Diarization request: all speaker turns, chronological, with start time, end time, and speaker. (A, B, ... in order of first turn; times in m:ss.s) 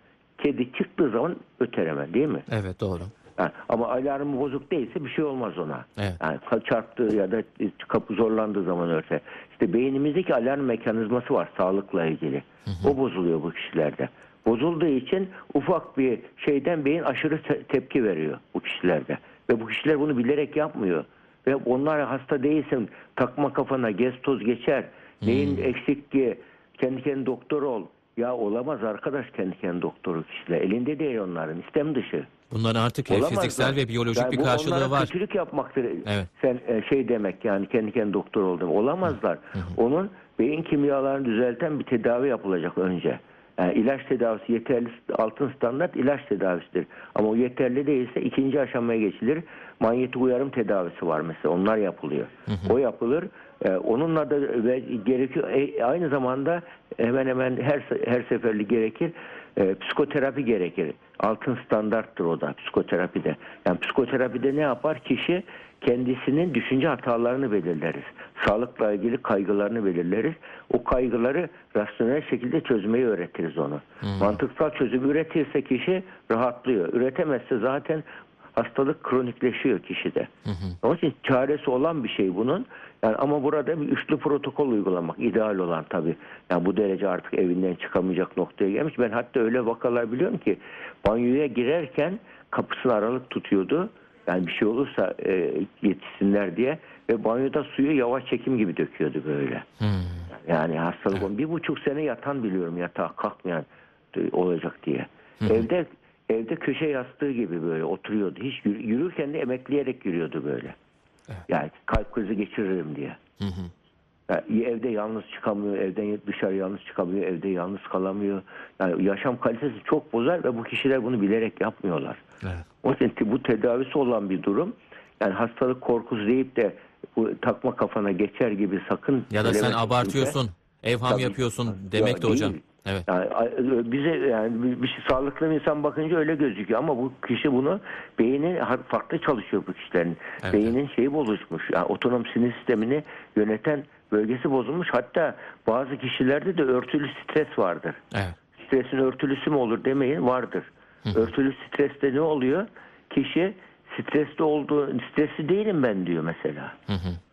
0:00.4-0:02.5 A
0:02.5-0:03.1 B
0:03.4-0:32.3 A
0:12.7-0:12.9 B
0:25.2-0:25.7 B
0:32.5-0:35.1 B
0:33.1-1:20.3 A
0:52.5-0:52.8 B
1:14.0-1:14.4 B
1:20.5-1:20.8 B
1:20.8-1:39.7 A
1:39.8-1:40.3 B
1:40.3-1:50.8 A
1:45.4-1:45.7 B
1:51.5-1:53.2 A
1:53.4-1:53.7 B
1:54.3-2:02.2 A
2:02.8-2:10.4 A
2:09.3-2:13.1 B
2:11.1-2:28.0 A
2:20.4-2:20.7 B
2:28.1-2:28.4 B
2:28.6-2:36.8 A
2:36.9-2:37.2 B